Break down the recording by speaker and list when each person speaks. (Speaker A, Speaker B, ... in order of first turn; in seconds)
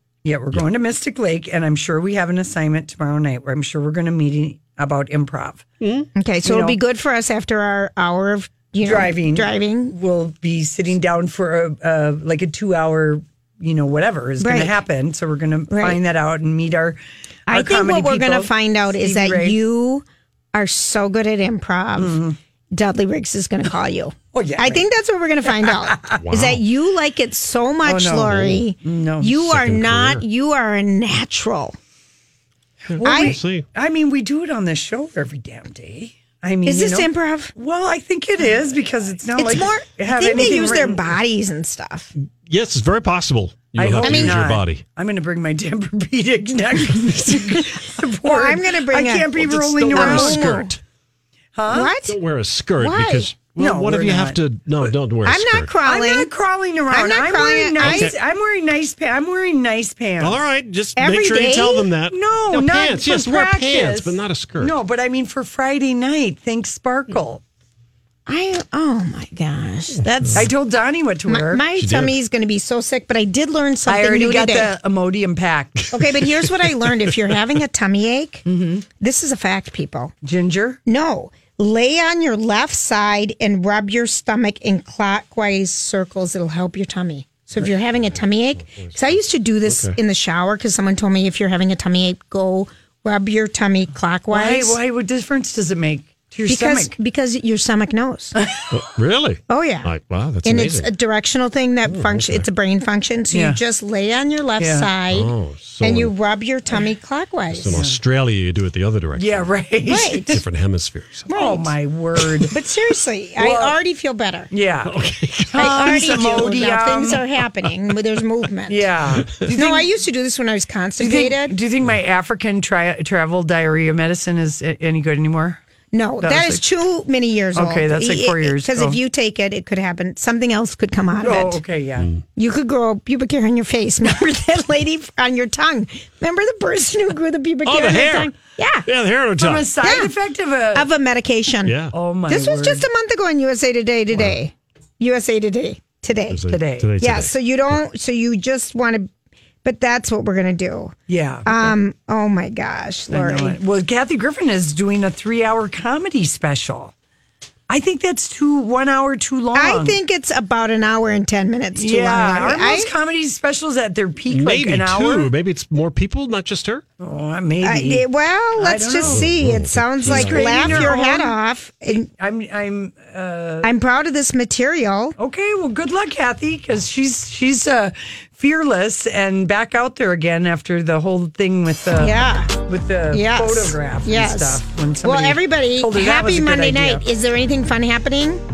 Speaker A: 0.2-5.7, 6.4-6.8, 8.8-19.6, 22.0-22.4, 24.3-24.9, 25.5-26.2, 27.8-29.6, 33.0-41.1, 43.7-50.7, 51.5-51.9, 53.6-54.9, 55.8-60.4, 62.1-67.4, 70.3-71.6, 73.8-75.9, 78.5-78.8, 80.2-80.8, 94.3-96.9, 103.3-103.6, 104.6-104.9, 107.7-108.0, 109.2-110.4, 111.3-112.5, 113.4-113.8, 114.5-117.2, 118.7-119.9, 121.0-125.6, 126.2-126.6, 127.5-129.0, 131.2-132.1, 139.4-140.9, 141.9-142.8, 146.5-146.9, 151.1-151.7, 153.1-156.9, 157.7-160.0, 161.8-165.3, 167.0-168.0, 168.6-169.4, 170.0-173.7, 175.2-187.1
Speaker B: 5.8-6.1, 26.1-26.6, 29.4-30.2, 32.9-33.6, 42.5-44.8, 49.4-50.8, 52.0-55.7, 57.8-58.1, 60.2-64.7, 71.8-72.1, 88.0-88.9, 89.7-90.0, 98.7-100.9, 101.8-102.5, 105.1-106.1, 107.5-109.5, 110.3-111.3, 114.8-116.0, 119.2-119.5, 137.6-139.7, 141.6-141.9, 146.3-147.3, 164.3-166.8, 169.0-170.9
Speaker C: 6.1-9.9, 14.4-14.7, 15.7-16.0, 17.5-22.2, 22.7-31.8, 33.0-33.4, 36.6-37.5, 39.4-42.1, 44.0-44.5, 48.2-50.7, 51.7-52.2, 52.7-53.4, 55.2-56.3, 56.9-58.1, 61.0-61.9, 68.2-70.5, 71.3-74.7, 75.9-80.1, 80.9-94.8, 96.5-98.4, 99.5-99.9, 100.4-107.8, 109.8-110.4, 111.3-111.7, 112.5-114.5, 115.5-118.8, 119.5-121.5, 125.9-131.6, 132.3-138.9, 139.8-140.1, 140.7-149.1, 149.6-153.6, 159.5-162.9, 167.6-172.0, 173.6-175.2, 181.9-182.6, 183.1-188.4